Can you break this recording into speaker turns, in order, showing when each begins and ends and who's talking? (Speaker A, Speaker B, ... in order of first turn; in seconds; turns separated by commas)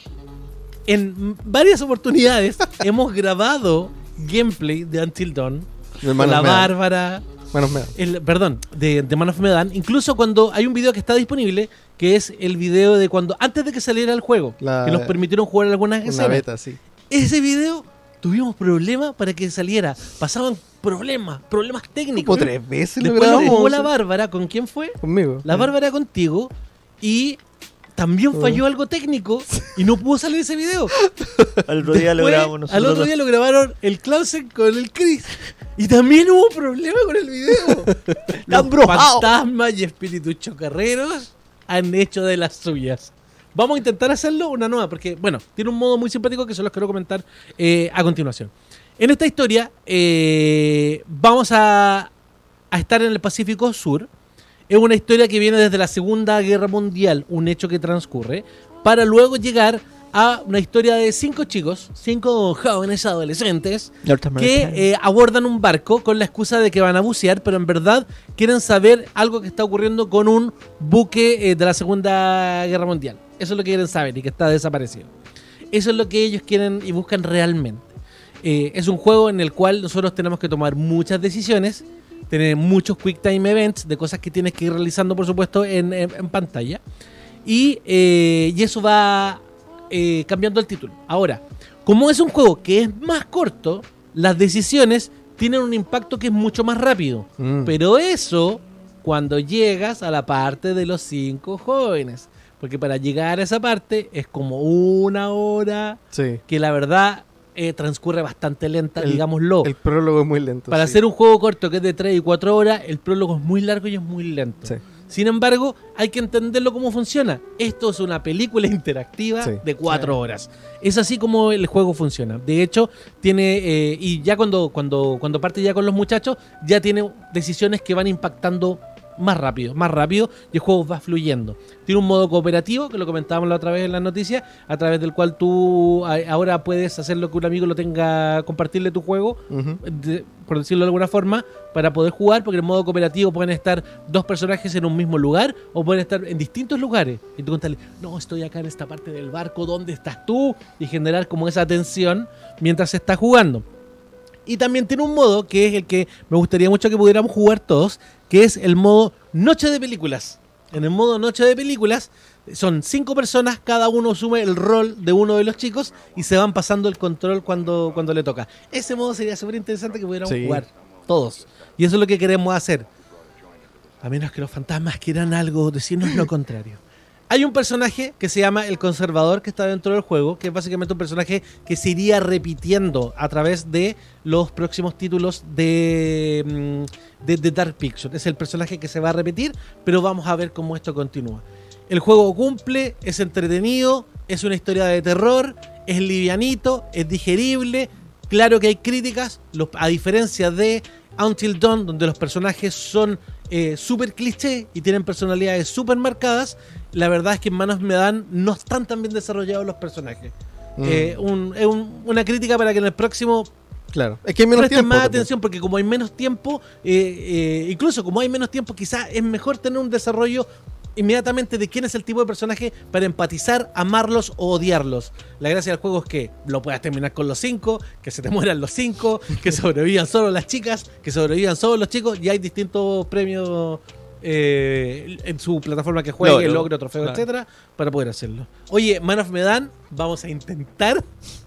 Speaker A: 0.9-7.2, Speaker B: 6.0-6.7, Speaker B: 7.5-7.9, Speaker A: 8.0-16.4, Speaker B: 14.6-15.2, Speaker B: 16.1-16.8, Speaker A: 17.1-27.4, Speaker B: 22.1-23.9, Speaker B: 25.0-25.7, Speaker A: 28.0-31.0, Speaker B: 28.3-28.6, Speaker B: 31.1-31.6, Speaker C: 31.6-33.1, Speaker A: 31.8-52.1, Speaker B: 37.6-37.9, Speaker C: 38.5-39.3, Speaker A: 52.7-54.1, Speaker A: 54.7-75.1, Speaker C: 64.0-64.9, Speaker A: 75.7-86.8, Speaker A: 87.5-109.7, Speaker B: 97.4-97.8, Speaker B: 106.1-106.4, Speaker B: 109.0-111.0, Speaker A: 110.7-153.7, Speaker B: 139.5-139.8, Speaker A: 154.5-172.9, Speaker B: 170.2-170.6, Speaker A: 174.0-213.5, Speaker B: 210.8-211.2, Speaker B: 213.9-215.3, Speaker A: 214.5-241.1, Speaker C: 236.2-237.2